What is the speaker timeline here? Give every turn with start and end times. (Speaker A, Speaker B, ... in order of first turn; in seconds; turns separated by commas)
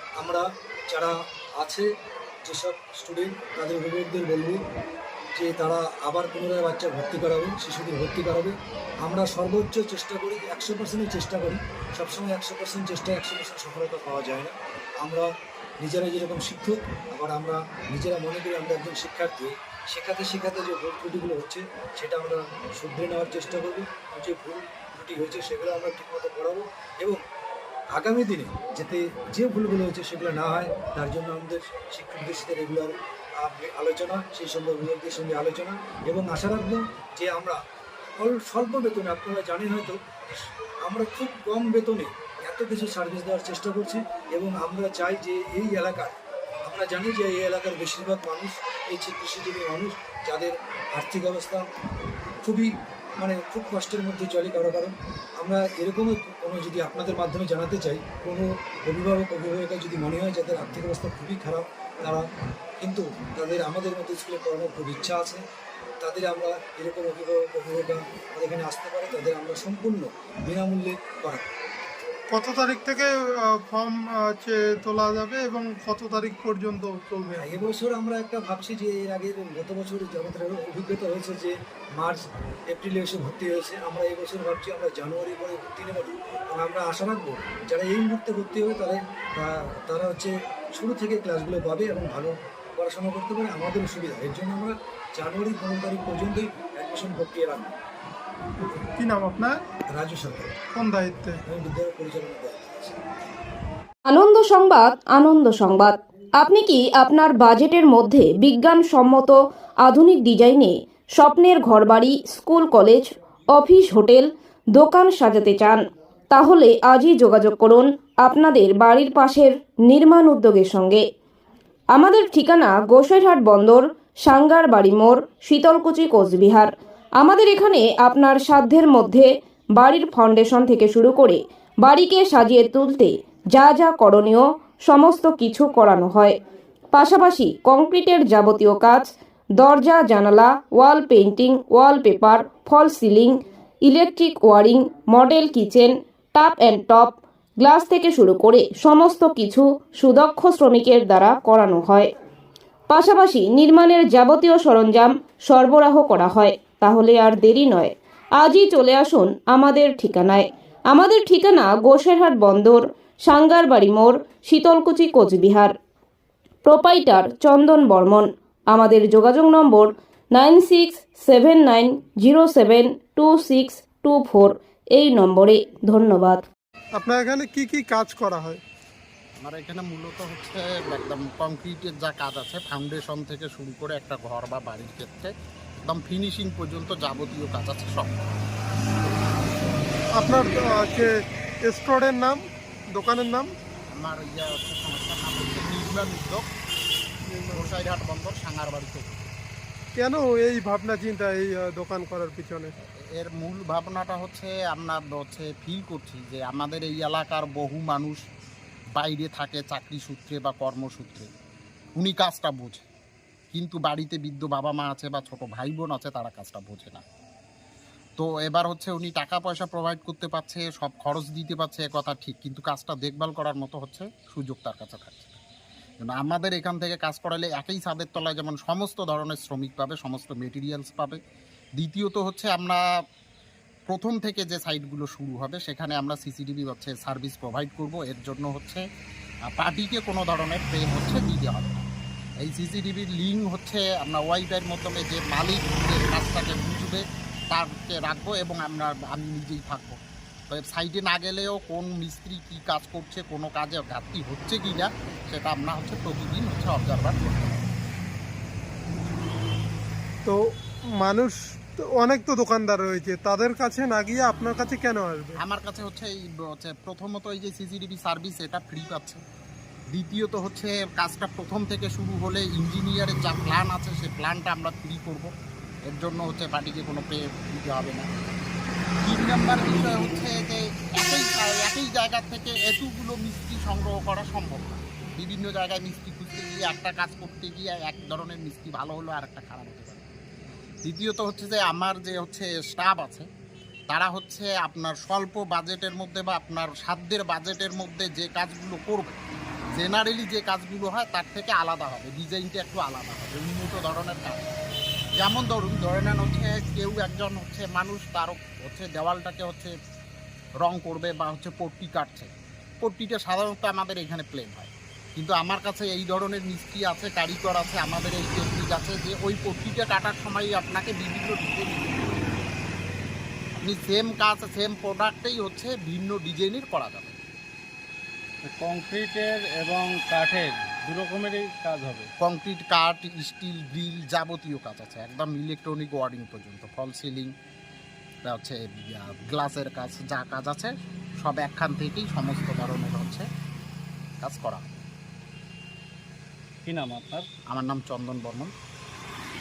Speaker A: 0.2-1.9, Speaker A: 2.4-4.6, Speaker A: 5.3-15.3, Speaker A: 15.8-27.2, Speaker A: 27.9-37.6, Speaker A: 38.2-51.6, Speaker A: 52.4-62.2, Speaker A: 62.8-65.4, Speaker A: 66.0-71.5, Speaker B: 72.3-73.0, Speaker B: 73.7-77.4, Speaker A: 77.4-97.8, Speaker B: 98.9-99.5, Speaker A: 99.9-100.6, Speaker B: 100.8-101.3, Speaker A: 101.5-103.0, Speaker C: 104.0-121.0, Speaker C: 121.9-136.4, Speaker C: 136.9-152.1, Speaker C: 152.9-165.7, Speaker C: 166.6-176.4, Speaker B: 177.0-178.6, Speaker D: 179.4-185.3, Speaker D: 185.8-188.4, Speaker B: 190.2-191.1, Speaker B: 191.7-192.3, Speaker B: 193.0-193.4, Speaker D: 193.9-196.5, Speaker D: 197.5-199.3, Speaker B: 200.0-202.6, Speaker D: 202.8-208.2, Speaker D: 208.9-211.3, Speaker D: 211.9-212.8, Speaker D: 213.5-217.0, Speaker D: 218.2-225.4, Speaker D: 226.0-231.2, Speaker D: 231.8-232.8, Speaker D: 233.9-238.8, Speaker D: 239.5-241.8, Speaker D: 242.4-257.7, Speaker B: 261.0-261.3, Speaker B: 262.0-265.3, Speaker D: 265.4-269.2, Speaker D: 269.9-275.3, Speaker D: 275.9-278.3, Speaker D: 279.0-290.1, Speaker D: 290.8-293.3, Speaker D: 293.9-299.2, Speaker D: 299.7-304.5, Speaker D: 305.2-309.7, Speaker D: 310.6-322.6, Speaker D: 323.6-327.1, Speaker E: 328.4-332.1, Speaker D: 332.2-337.3, Speaker D: 338.2-343.3, Speaker D: 344.2-344.8, Speaker E: 346.6-347.3, Speaker D: 347.5-348.5